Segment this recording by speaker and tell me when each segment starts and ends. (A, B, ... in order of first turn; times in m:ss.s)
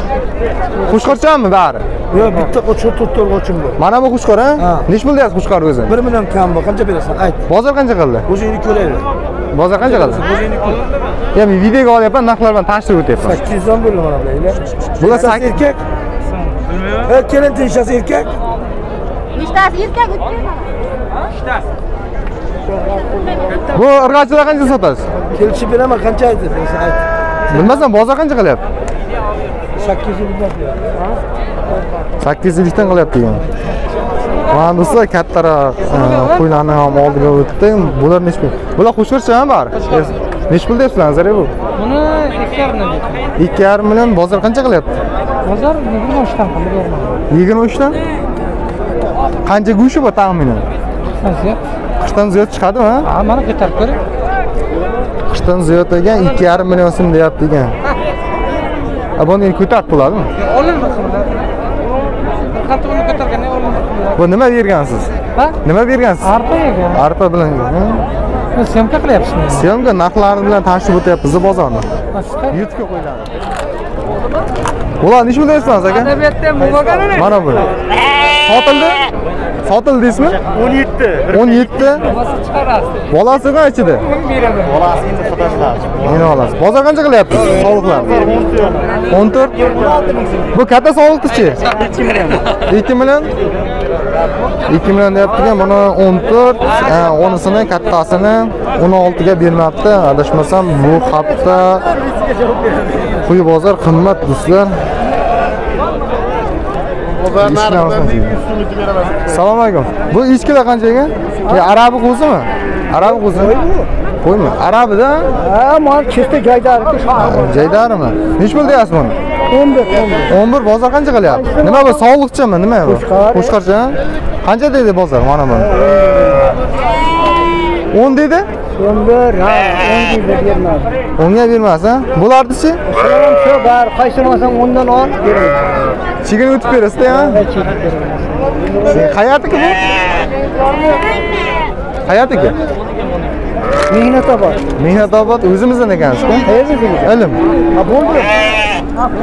0:00.8-0:01.8 A
0:02.1-0:03.8 B
0:03.8-0:06.0 A
0:05.9-0:07.4 B
0:07.5-0:08.2 A
0:08.3-0:09.0 B
0:09.5-0:10.2 A
0:11.3-0:13.4 A
0:13.2-0:15.8 B
0:15.0-0:15.6 A
0:17.1-0:18.3 B
0:23.7-0:25.0 A
0:25.3-0:27.0 B
0:27.5-0:28.6 A
0:29.8-0:30.8 B
0:32.2-0:33.4 A
0:34.5-0:41.5 A
0:41.8-0:43.2 C
0:43.4-0:44.9 A
0:45.4-0:47.2 C
0:47.3-0:48.0 A
0:49.4-0:50.6 A
0:51.2-0:51.6 C
0:52.0-0:53.1 A
0:53.1-0:54.0 C
0:55.3-0:57.8 A
0:59.2-1:00.3 A
1:00.4-1:01.3 C
1:02.5-1:04.1 C
1:04.1-1:06.4 A
1:06.2-1:07.0 C
1:06.9-1:08.0 A
1:08.5-1:09.6 C
1:09.5-1:11.8 A
1:12.1-1:12.5 C
1:12.5-1:13.3 A
1:15.0-1:16.2 A
1:16.4-1:16.8 C
1:17.1-1:17.7 A
1:18.4-1:19.0 A
1:19.6-1:20.4 A
1:21.3-1:22.1 A
1:23.1-1:24.0 A
1:25.9-1:28.4 A
1:29.1-1:29.8 A
1:30.5-1:31.8 A
1:32.7-1:33.3 A
1:34.7-1:41.8 A
1:43.2-1:44.7 A
1:47.2-1:48.4 A
1:49.2-1:53.6 A
1:53.3-1:53.8 B
1:54.2-1:55.3 A
1:55.4-1:57.1 B
1:57.2-1:59.2 A
1:59.5-2:00.2 B
2:00.3-2:05.8 A
2:02.9-2:03.3 B
2:06.2-2:06.5 B
2:07.9-2:08.5 A
2:09.3-2:09.7 B
2:11.2-2:12.8 A
2:12.9-2:14.0 B
2:14.6-2:15.4 B
2:16.2-2:17.4 A
2:17.6-2:18.8 B
2:18.9-2:19.8 A
2:22.0-2:22.6 A
2:23.9-2:24.6 B
2:24.8-2:27.4 A
2:26.5-2:27.0 B
2:27.8-2:28.4 B